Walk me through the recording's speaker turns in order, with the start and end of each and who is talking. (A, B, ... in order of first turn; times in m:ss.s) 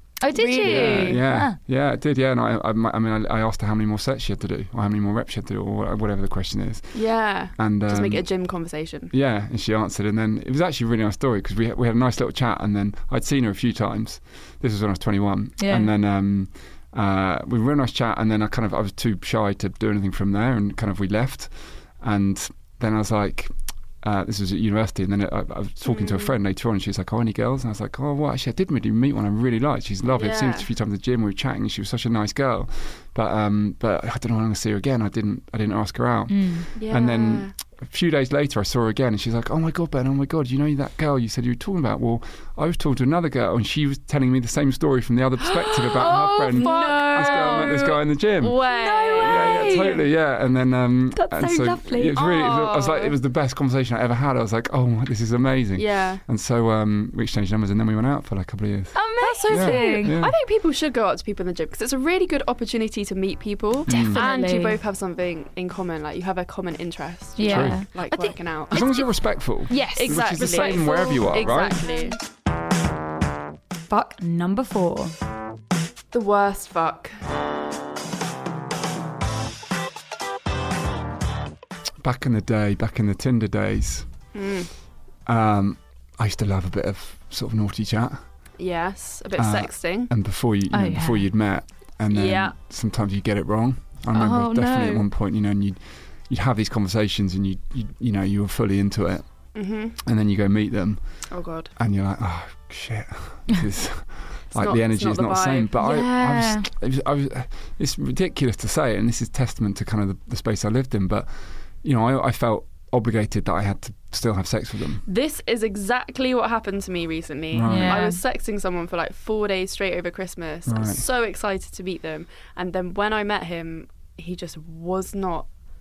0:00.2-0:01.6 A
0:00.3-0:01.2 B
0:00.6-0:08.3 C
0:06.9-0:09.1 B
0:09.1-0:48.6 C
0:15.6-0:15.9 A
0:25.9-0:26.3 B
0:30.1-0:30.7 B
0:36.3-0:36.7 A
0:36.8-0:37.5 B
0:45.4-0:49.8 B
0:46.0-0:47.8 A
0:48.6-0:50.0 A
0:49.2-1:00.3 C
0:51.1-0:52.2 A
0:52.2-0:53.2 B
0:55.8-0:56.2 B
0:59.0-1:00.2 A
0:59.2-1:09.0 B
1:03.9-1:04.2 C
1:03.9-1:04.8 A
1:07.4-1:09.1 A
1:07.5-1:07.8 C
1:08.7-1:11.8 C
1:09.7-1:11.5 A
1:09.9-1:12.2 B
1:13.9-1:15.2 A
1:16.1-1:17.2 B
1:22.0-1:24.1 C
1:24.3-1:24.7 B
1:25.3-1:28.2 C
1:28.6-1:30.1 B
1:29.4-1:39.2 C
1:30.7-1:31.3 A
1:32.1-1:32.6 B
1:34.1-1:35.1 A
1:39.6-1:40.0 B
1:40.0-1:41.2 C
1:41.3-1:41.7 B
1:41.8-1:55.0 C
1:44.5-1:45.8 B
1:45.8-1:46.7 A
1:55.1-2:05.5 B
1:57.5-1:58.1 C
1:57.6-1:58.2 A
2:00.7-2:01.0 C